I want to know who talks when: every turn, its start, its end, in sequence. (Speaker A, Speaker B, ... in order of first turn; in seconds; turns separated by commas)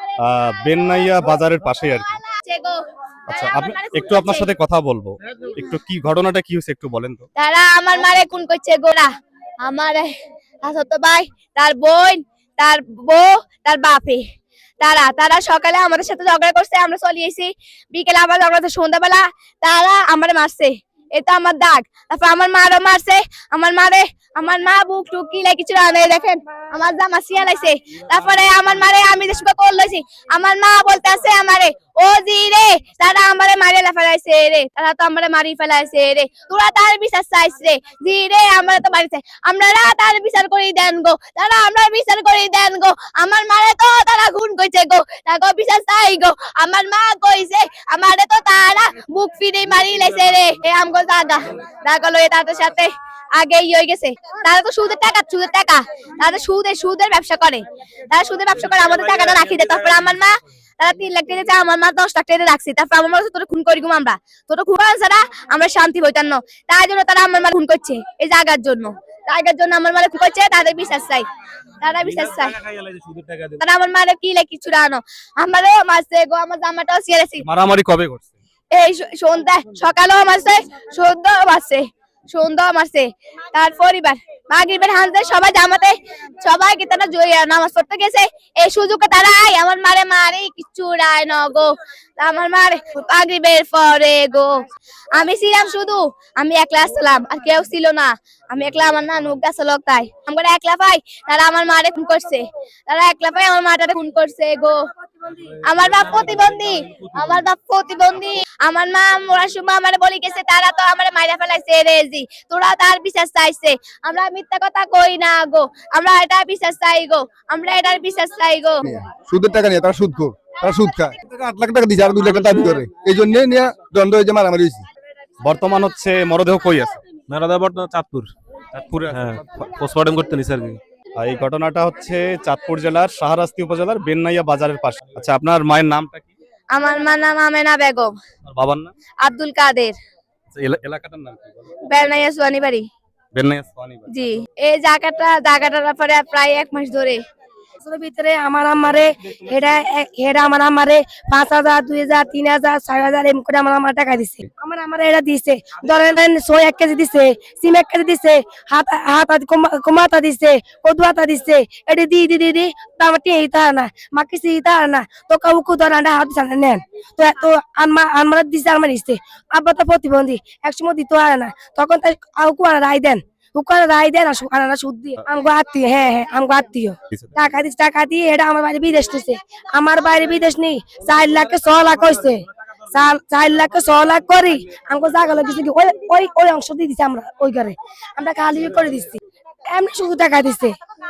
Speaker A: 0.2-2.1, Speaker B: 2.4-2.8, Speaker A: 3.3-7.2, Speaker B: 3.3-4.5, Speaker B: 7.3-9.1, Speaker B: 9.6-10.1, Speaker B: 10.6-14.2, Speaker B: 14.8-71.2, Speaker B: 71.8-72.5, Speaker C: 72.0-73.6, Speaker B: 73.6-77.4, Speaker A: 77.4-78.3, Speaker B: 78.7-94.5, Speaker B: 95.2-104.8, Speaker B: 105.6-118.8, Speaker D: 118.8-124.8, Speaker C: 122.4-122.7, Speaker A: 125.4-127.0, Speaker C: 127.3-128.3, Speaker A: 128.7-129.3, Speaker C: 129.1-130.8, Speaker A: 131.2-136.3, Speaker B: 136.7-138.1, Speaker A: 138.5-138.9, Speaker B: 139.2-139.9, Speaker A: 140.5-141.4, Speaker B: 141.9-142.8, Speaker A: 143.3-144.1, Speaker B: 144.1-147.2, Speaker E: 147.8-189.2, Speaker E: 189.7-190.8